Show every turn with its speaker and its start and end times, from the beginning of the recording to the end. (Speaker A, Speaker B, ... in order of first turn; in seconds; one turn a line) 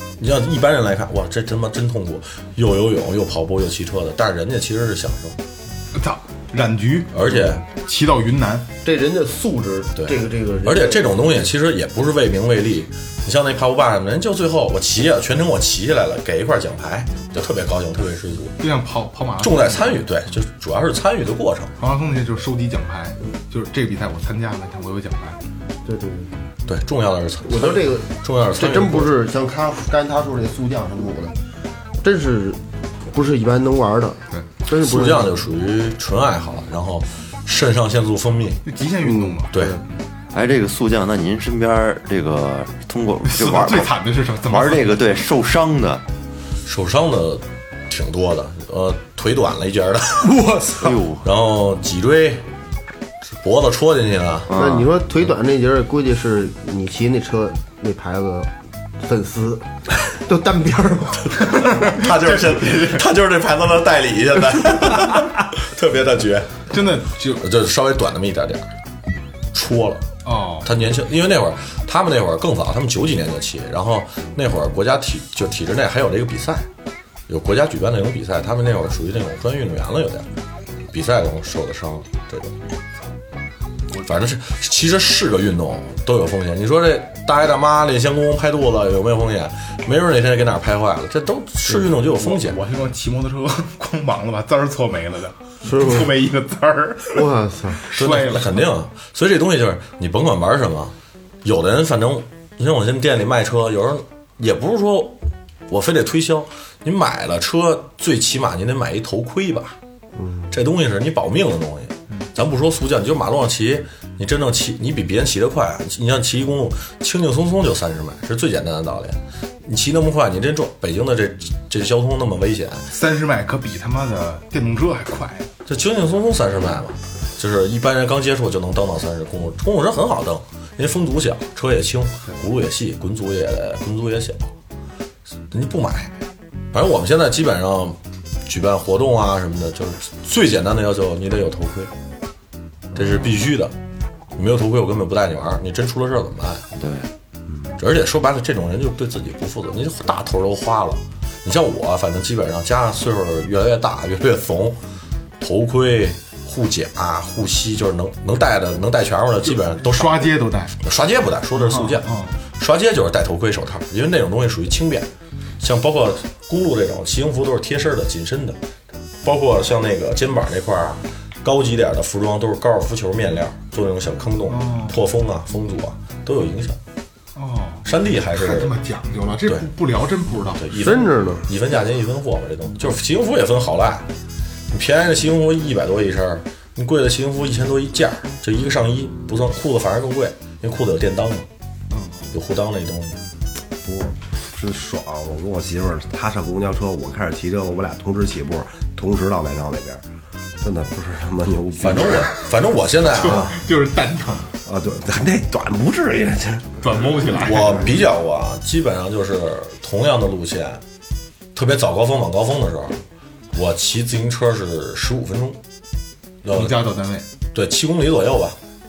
Speaker A: 0.2-5.4
Speaker B: 5.9-8.7
Speaker A: 7.1-7.6
Speaker C: 8.8-11.3
Speaker A: 10.0-18.6
Speaker B: 18.6-20.1
Speaker A: 19.4-21.7
Speaker B: 21.8-25.4
Speaker C: 25.9-26.3
Speaker A: 26.7-29.1
Speaker C: 27.4-31.4
Speaker C: 32.0-35.4
Speaker A: 34.7-38.6
Speaker B: 38.6-39.7
Speaker C: 39.1-39.8
Speaker A: 39.5-39.8
Speaker D: 40.3-44.0
Speaker B: 43.2-45.1
Speaker D: 44.5-46.0
Speaker A: 46.7-50.5
Speaker E: 50.3-51.0
Speaker D: 50.7-51.2
Speaker A: 51.2-52.5
Speaker A: 53.3-54.5
Speaker D: 54.5-54.9
Speaker C: 54.5-61.8
Speaker B: 61.5-63.1
Speaker A: 61.6-66.7
Speaker B: 66.7-67.5
Speaker A: 67.4-68.7
Speaker A: 69.5-76.7
Speaker B: 70.2-70.7
Speaker A: 77.3-80.3
Speaker A: 80.9-82.5
Speaker A: 84.0-92.6
Speaker B: 92.1-97.3
Speaker C: 95.6-96.1
Speaker C: 97.1-97.8
Speaker B: 97.8-98.7
Speaker A: 98.0-109.8
Speaker C: 110.2-110.5
Speaker A: 110.5-122.9
Speaker B: 122.9-125.5
Speaker A: 125.7-134.5
Speaker A: 135.5-136.1
Speaker A: 136.7-141.9
Speaker A: 142.9-143.7
Speaker A: 144.4-146.7
Speaker D: 146.8-147.1
Speaker A: 147.8-154.8
Speaker A: 155.4-160.3
Speaker B: 159.5-160.8
Speaker A: 160.8-168.6
Speaker B: 161.6-162.4
Speaker A: 169.2-176.8
Speaker B: 174.5-175.0
Speaker B: 177.3-180.8
Speaker A: 177.8-178.7
Speaker A: 180.6-184.1
Speaker C: 180.8-181.4
Speaker A: 184.7-191.5
Speaker B: 191.9-192.3
Speaker A: 192.3-193.2
Speaker E: 193.8-200.0
Speaker E: 200.6-202.3
Speaker A: 201.8-203.6
Speaker B: 203.2-204.5
Speaker E: 204.7-206.9
Speaker B: 206.8-207.9
Speaker A: 207.4-210.8
Speaker A: 211.6-213.0
Speaker A: 213.5-215.6
Speaker A: 216.4-216.8
Speaker B: 216.5-217.3
Speaker A: 217.5-218.6